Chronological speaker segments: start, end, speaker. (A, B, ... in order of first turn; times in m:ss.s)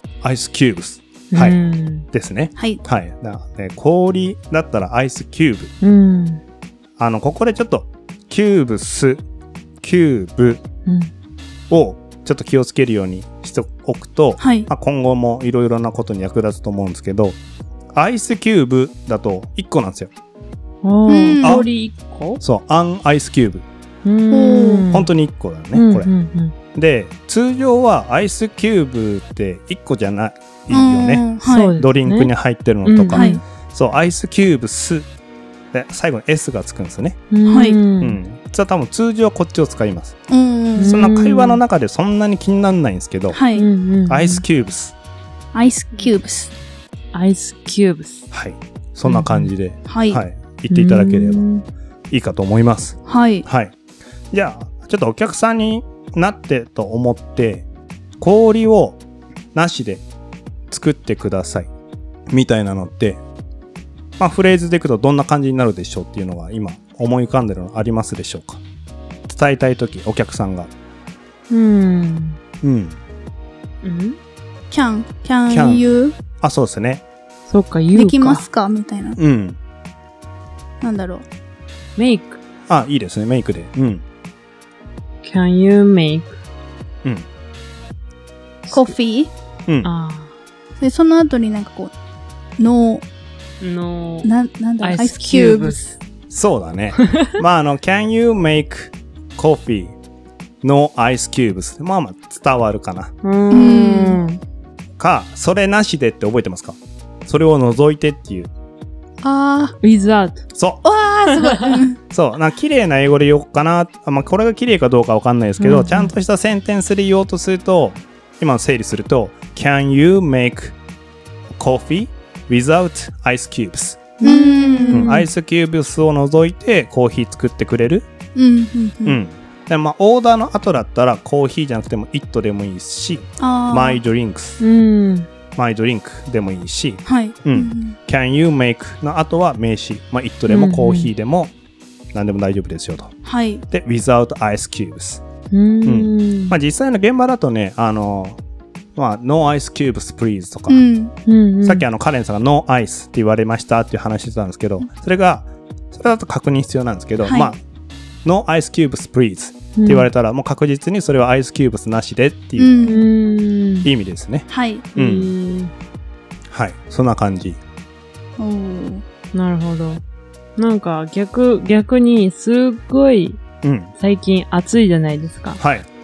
0:00.2-0:01.6 A
0:01.3-0:02.1 B
0:02.1-0:05.7 A
0:05.8-0:06.4 B
0:07.0-0:09.2 A
0:09.8-0:10.6 A
0:11.7-0:17.4 A
0:14.4-0:14.7 C
0:17.9-0:20.1 A
0:20.8-0:22.4 B
0:21.1-0:21.6 C
0:21.4-0:21.7 A
0:22.4-0:23.7 A
0:24.0-0:25.1 B
0:24.3-0:24.9 C
0:24.9-0:26.1 A
0:25.7-0:26.6 B
0:26.7-0:35.1 A
0:30.7-0:31.7 C
0:31.4-0:32.3 B
0:32.8-0:33.4 B
0:33.1-0:33.4 C
0:35.7-0:37.2 A
0:37.3-0:38.2 B
0:37.5-0:37.8 C
0:38.0-0:40.2 A
0:40.3-0:40.9 C
0:40.8-0:41.6 B
0:40.8-0:43.4 A
0:43.3-0:43.7 C
0:43.6-0:44.4 B
0:44.1-0:45.0 A
0:45.5-0:46.5 C
0:47.1-0:48.3 B
0:48.3-0:51.4 A
0:49.1-0:49.5 B
0:49.9-0:50.2 C
0:50.7-0:51.6 B
0:52.1-0:53.7 A
0:53.1-0:53.4 C
0:54.3-0:57.7 A
0:58.2-0:59.0 A
0:59.5-1:00.0 A
1:00.7-1:01.7 A
1:02.3-1:03.2 A
1:04.2-1:08.6 A
1:09.3-1:10.7 A
1:11.5-1:12.4 B
1:12.6-1:13.0 A
1:13.8-1:14.2 B
1:14.7-1:16.2 C
1:15.5-1:15.9 A
1:16.4-1:17.0 A
1:17.5-1:18.4 B
1:18.0-1:19.2 C
1:19.2-1:19.6 A
1:20.8-1:21.2 C
1:22.0-1:22.4 B
1:22.7-1:24.0 A
1:25.2-1:26.4 B
1:28.7-1:28.9 B
1:28.7-1:29.3 C
1:29.8-1:30.3 B
1:30.8-1:31.9 C
1:32.6-1:33.0 C
1:33.6-1:34.3 B
1:34.2-1:35.8 C
1:34.8-1:36.0 B
1:36.3-1:40.0 A
1:37.0-1:37.4 B
1:40.6-1:43.1 A
1:43.2-1:44.4 B
1:43.5-1:44.2 C
1:45.0-1:48.5 A
1:49.2-1:49.8 C
1:49.8-1:50.4 B
1:50.6-1:50.8 A
1:50.8-1:52.0 C
1:51.3-1:51.8 B
1:52.1-2:00.8 A
1:55.6-1:56.1 B
2:01.6-2:04.1 A
2:04.2-2:05.1 C
2:04.2-2:05.3 B
2:04.9-2:08.1 A
2:08.4-2:09.2 C
2:09.0-2:14.6 A
2:13.4-2:14.0 C
2:14.6-2:15.3 B
2:15.6-2:21.5 A
2:17.0-2:18.0 C
2:20.5-2:21.1 B
2:22.1-2:23.1 A
2:23.2-2:23.6 C
2:23.7-2:25.2 A
2:25.5-2:26.6 B
2:25.8-2:28.4 A
2:29.0-2:30.8 A
2:30.7-2:31.1 C
2:31.3-2:31.8 B
2:31.6-2:37.6 A
2:37.2-2:37.5 C
2:38.2-2:42.7 A
2:39.8-2:40.1 B
2:42.6-2:43.0 C
2:42.9-2:43.9 B
2:43.8-2:45.3 A
2:44.5-2:44.8 C
2:45.0-2:45.7 B
2:46.5-2:47.6 A
2:48.4-2:49.0 C
2:49.3-2:50.0 B
2:50.6-2:53.4 B
2:53.6-2:53.9 A
2:54.0-2:55.6 B
2:55.6-2:55.9 A